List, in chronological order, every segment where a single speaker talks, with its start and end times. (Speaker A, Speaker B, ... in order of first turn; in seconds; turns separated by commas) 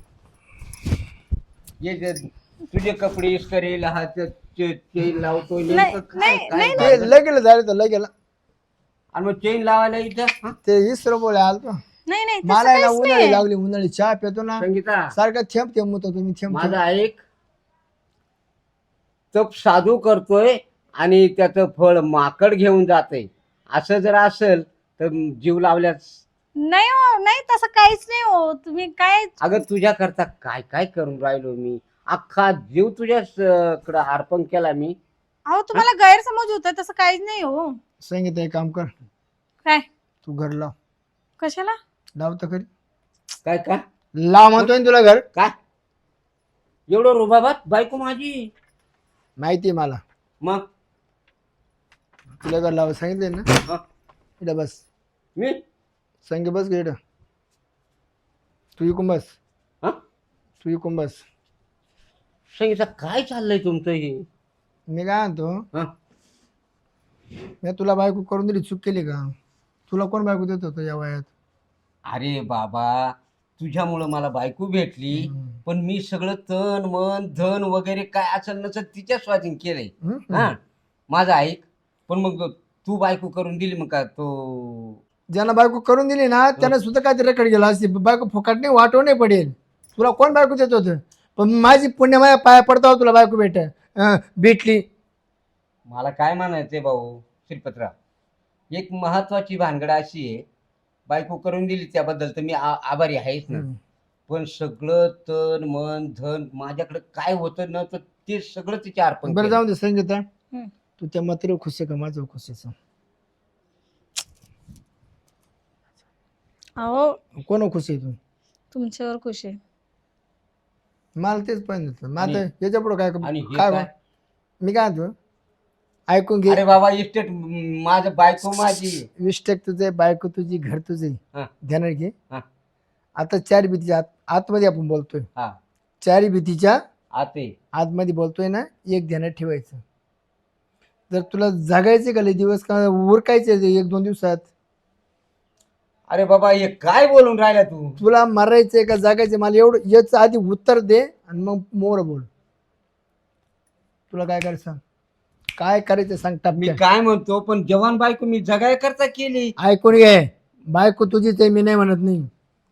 Speaker A: 1.8-7.1, Speaker B: 5.7-7.0, Speaker C: 6.8-8.1, Speaker A: 9.1-10.6, Speaker C: 10.6-11.8, Speaker B: 12.1-13.4, Speaker C: 12.4-16.8, Speaker A: 14.6-15.1, Speaker A: 16.5-17.2, Speaker A: 19.3-26.1, Speaker B: 26.6-29.4, Speaker A: 29.4-35.0, Speaker B: 35.5-37.8, Speaker C: 38.0-39.0, Speaker C: 40.2-40.7, Speaker B: 41.4-41.8, Speaker C: 42.2-42.7, Speaker A: 43.4-43.8, Speaker C: 44.2-45.2, Speaker A: 46.9-48.5, Speaker C: 49.4-50.0, Speaker C: 52.4-53.5, Speaker C: 54.4-54.8, Speaker C: 56.2-57.0, Speaker C: 58.8-59.4, Speaker C: 60.6-61.2, Speaker A: 62.5-64.2, Speaker C: 64.9-65.6, Speaker C: 67.6-69.3, Speaker C: 69.9-71.3, Speaker A: 72.1-80.5, Speaker C: 75.1-75.6, Speaker C: 80.0-80.5, Speaker A: 81.1-85.0, Speaker C: 85.3-94.8, Speaker A: 95.9-97.9, Speaker A: 98.7-100.4, Speaker A: 101.1-103.6, Speaker C: 103.5-103.8, Speaker A: 104.3-109.6, Speaker C: 109.2-110.2, Speaker C: 111.0-112.7, Speaker B: 116.8-117.2, Speaker C: 117.3-118.2, Speaker B: 118.7-119.6, Speaker C: 121.2-123.9, Speaker A: 122.2-122.4, Speaker A: 123.2-123.9, Speaker C: 124.6-125.1, Speaker C: 126.1-126.6, Speaker A: 126.5-129.1, Speaker C: 129.2-132.1, Speaker C: 133.2-135.2, Speaker C: 136.0-136.8, Speaker A: 137.1-137.5, Speaker C: 137.7-139.8, Speaker C: 141.1-144.5, Speaker A: 146.1-148.0, Speaker C: 148.0-152.3, Speaker C: 154.1-154.8, Speaker C: 155.6-156.8, Speaker A: 156.5-159.5, Speaker C: 159.6-162.3